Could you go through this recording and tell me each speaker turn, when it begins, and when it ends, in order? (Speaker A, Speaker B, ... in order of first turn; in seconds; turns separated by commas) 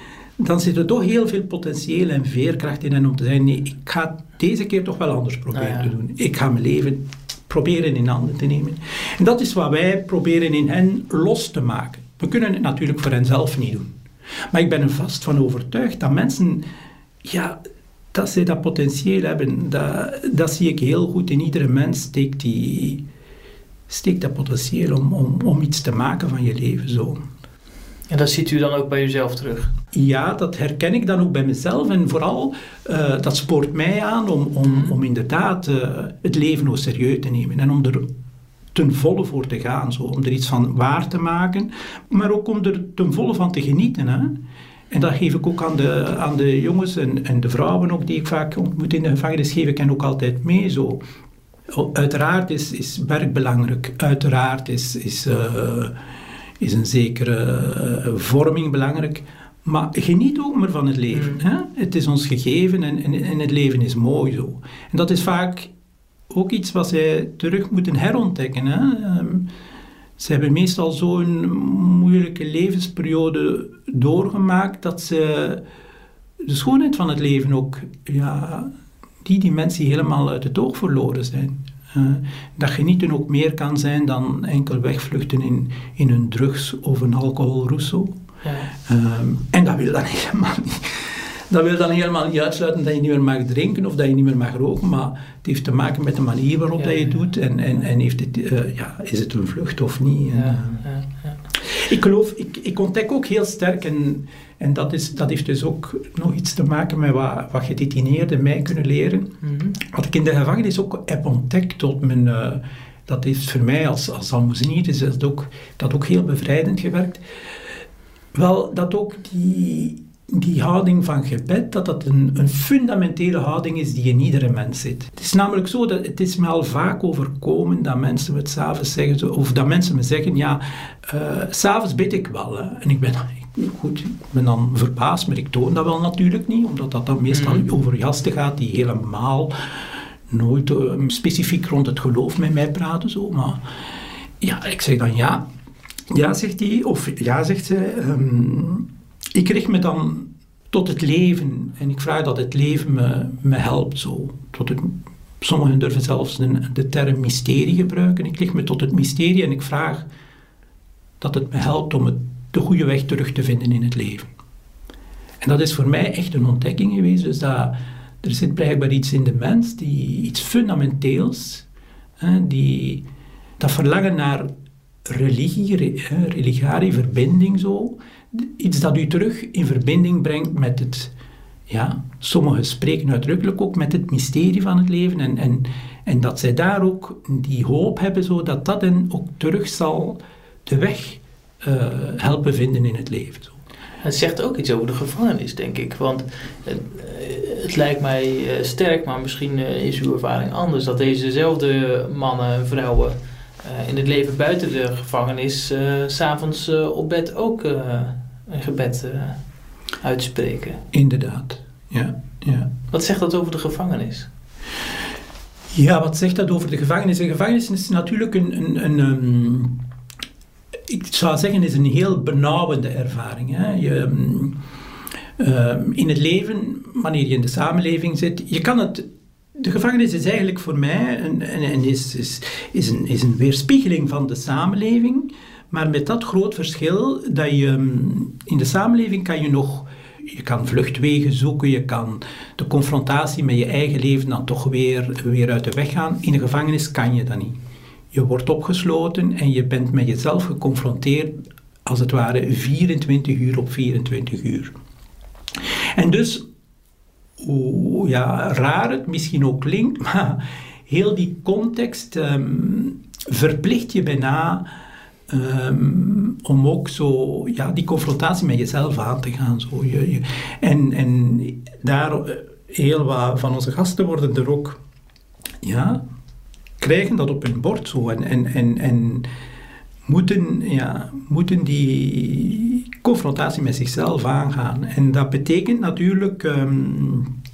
Speaker A: 0.4-13.9, Speaker B: 5.5-5.9, Speaker A: 14.5-16.6, Speaker A: 17.2-17.6, Speaker A: 18.1-23.0, Speaker A: 23.9-27.2, Speaker B: 28.1-29.7, Speaker A: 29.9-38.0, Speaker B: 34.6-35.0, Speaker A: 38.7-44.3, Speaker A: 44.9-51.0, Speaker A: 51.7-55.9, Speaker A: 56.6-65.7, Speaker B: 61.1-61.4, Speaker A: 66.3-69.4, Speaker A: 70.2-75.6, Speaker A: 76.4-78.7, Speaker A: 79.2-88.1, Speaker B: 88.4-88.7, Speaker A: 88.8-100.8, Speaker B: 96.8-97.3, Speaker B: 100.3-101.4, Speaker A: 101.6-117.2, Speaker B: 109.4-109.8, Speaker A: 118.3-139.5, Speaker B: 137.3-137.7, Speaker A: 140.3-143.6, Speaker A: 144.4-145.4, Speaker A: 146.1-160.1, Speaker A: 161.2-164.3, Speaker A: 165.4-171.7, Speaker A: 172.2-173.0, Speaker A: 173.6-174.5, Speaker A: 175.1-181.1, Speaker A: 181.7-193.6, Speaker B: 194.0-209.4, Speaker B: 210.0-210.8, Speaker A: 210.9-212.7, Speaker B: 212.9-214.3, Speaker A: 215.7-219.7, Speaker A: 220.9-224.5, Speaker A: 225.4-229.0, Speaker A: 229.6-247.6, Speaker A: 248.1-251.3, Speaker A: 251.8-254.7, Speaker A: 255.9-256.4, Speaker A: 257.4-264.6, Speaker A: 265.3-274.8, Speaker A: 275.6-276.0, Speaker A: 276.8-279.2, Speaker A: 280.1-287.3